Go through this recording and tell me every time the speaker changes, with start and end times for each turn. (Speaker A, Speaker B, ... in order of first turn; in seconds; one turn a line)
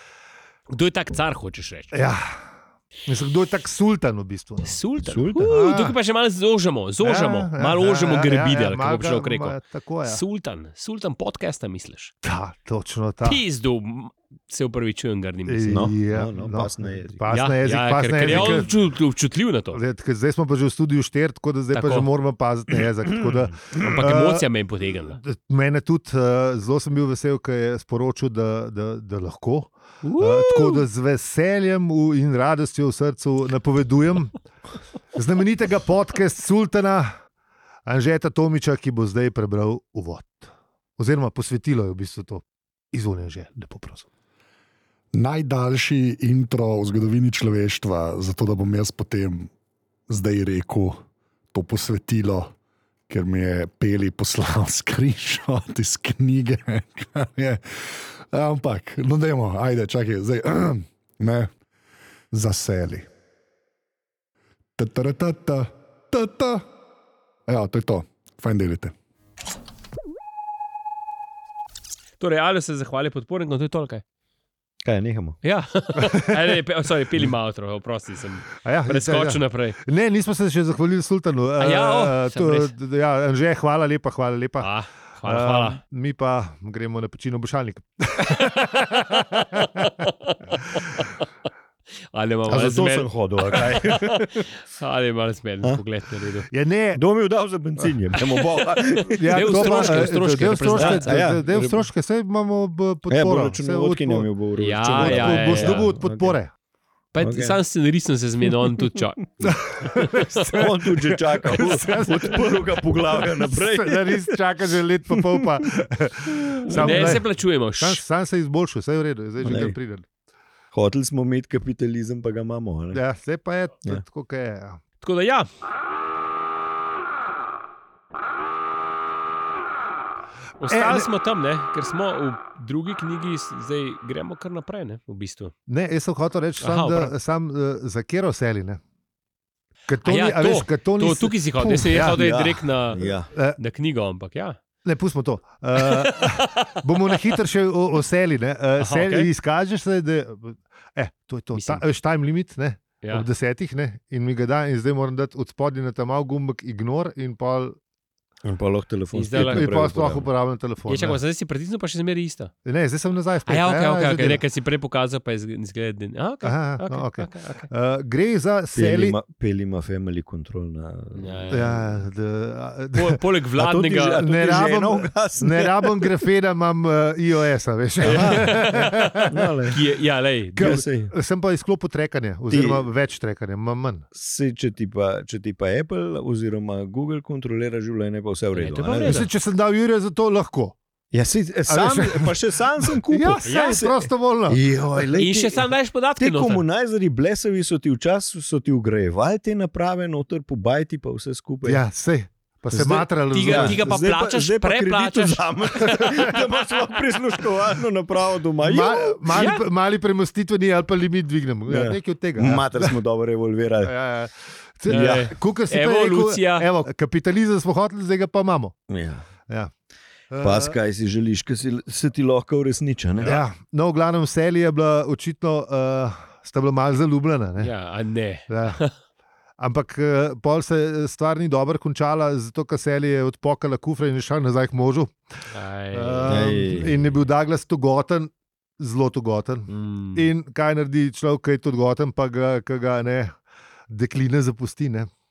Speaker A: 0.7-2.1
Speaker B: 1.9-2.4
Speaker B: 3.1-4.8
Speaker A: 4.6-12.1
Speaker C: 5.0-5.5
Speaker B: 5.4-6.0
Speaker B: 7.0-10.2
Speaker B: 12.2-13.4
Speaker A: 13.2-15.9
Speaker B: 15.5-18.7
Speaker C: 15.7-17.2
Speaker A: 17.3-19.8
Speaker C: 18.2-18.7
Speaker B: 19.7-24.5
Speaker A: 21.7-22.1
Speaker A: 23.7-25.2
Speaker B: 25.2-34.4
Speaker A: 30.0-30.8
Speaker B: 35.1-37.1
Speaker B: 37.9-44.1
Speaker D: 45.1-49.5
Speaker D: 50.1-51.0
Speaker D: 51.5-52.5
Speaker D: 53.1-61.5
Speaker D: 62.3-63.1
Speaker D: 64.8-66.7
Speaker D: 67.5-68.9
Speaker A: 72.2-74.0
Speaker C: 74.8-75.4
Speaker A: 75.4-79.8
Speaker B: 76.0-76.4
Speaker B: 78.6-84.7
Speaker A: 81.6-82.7
Speaker A: 84.6-85.8
Speaker B: 85.2-89.9
Speaker A: 88.2-91.2
Speaker A: 92.1-96.5
Speaker C: 92.5-94.5
Speaker B: 96.5-97.0
Speaker C: 96.9-100.1
Speaker A: 98.8-101.2
Speaker B: 99.1-104.3
Speaker C: 100.8-101.9
Speaker C: 103.1-106.4
Speaker A: 104.6-106.0
Speaker B: 105.0-106.5
Speaker A: 107.1-110.5
Speaker C: 107.2-107.6
Speaker B: 109.4-120.0
Speaker C: 110.5-114.4
Speaker C: 115.1-115.5
Speaker C: 116.3-117.2
Speaker A: 116.7-118.0
Speaker C: 119.4-119.8
Speaker C: 120.7-123.0
Speaker B: 122.9-124.8
Speaker A: 125.0-125.5
Speaker A: 130.6-135.5
Speaker B: 130.7-131.1
Speaker B: 135.7-138.8
Speaker A: 136.6-137.1
Speaker B: 139.9-142.2
Speaker A: 140.0-144.6
Speaker C: 141.9-143.3
Speaker B: 143.3-143.6
Speaker B: 144.8-157.8
Speaker A: 145.8-147.3
Speaker A: 148.8-149.3
Speaker A: 151.5-151.8
Speaker C: 158.4-160.3
Speaker A: 159.1-159.7
Speaker B: 159.3-161.2
Speaker A: 160.9-162.5
Speaker B: 162.7-164.4
Speaker A: 163.4-167.7
Speaker B: 166.4-169.2
Speaker C: 168.7-171.8
Speaker A: 171.1-171.8
Speaker B: 171.5-179.5
Speaker A: 172.9-174.6
Speaker C: 173.6-176.2
Speaker A: 178.0-180.8
Speaker C: 178.0-179.8
Speaker C: 180.6-181.1
Speaker B: 180.6-184.1
Speaker C: 182.5-182.8
Speaker C: 184.1-189.3
Speaker A: 188.6-189.3
Speaker B: 189.0-190.8
Speaker C: 191.1-201.8
Speaker B: 191.7-195.1
Speaker A: 193.4-193.8
Speaker A: 195.2-196.6
Speaker B: 201.6-203.8
Speaker C: 202.7-209.4
Speaker A: 203.3-206.4
Speaker B: 208.6-212.9
Speaker A: 209.3-209.6
Speaker C: 211.7-213.9
Speaker B: 213.8-218.8
Speaker C: 214.9-215.3
Speaker A: 214.9-216.7
Speaker C: 218.9-219.2
Speaker B: 220.3-220.8
Speaker C: 220.4-223.4
Speaker B: 223.2-227.7
Speaker A: 227.6-228.9
Speaker B: 228.5-228.8
Speaker B: 229.6-235.2
Speaker A: 235.5-237.2
Speaker B: 235.9-243.4
Speaker C: 236.3-237.0
Speaker A: 239.7-240.3
Speaker B: 243.9-245.1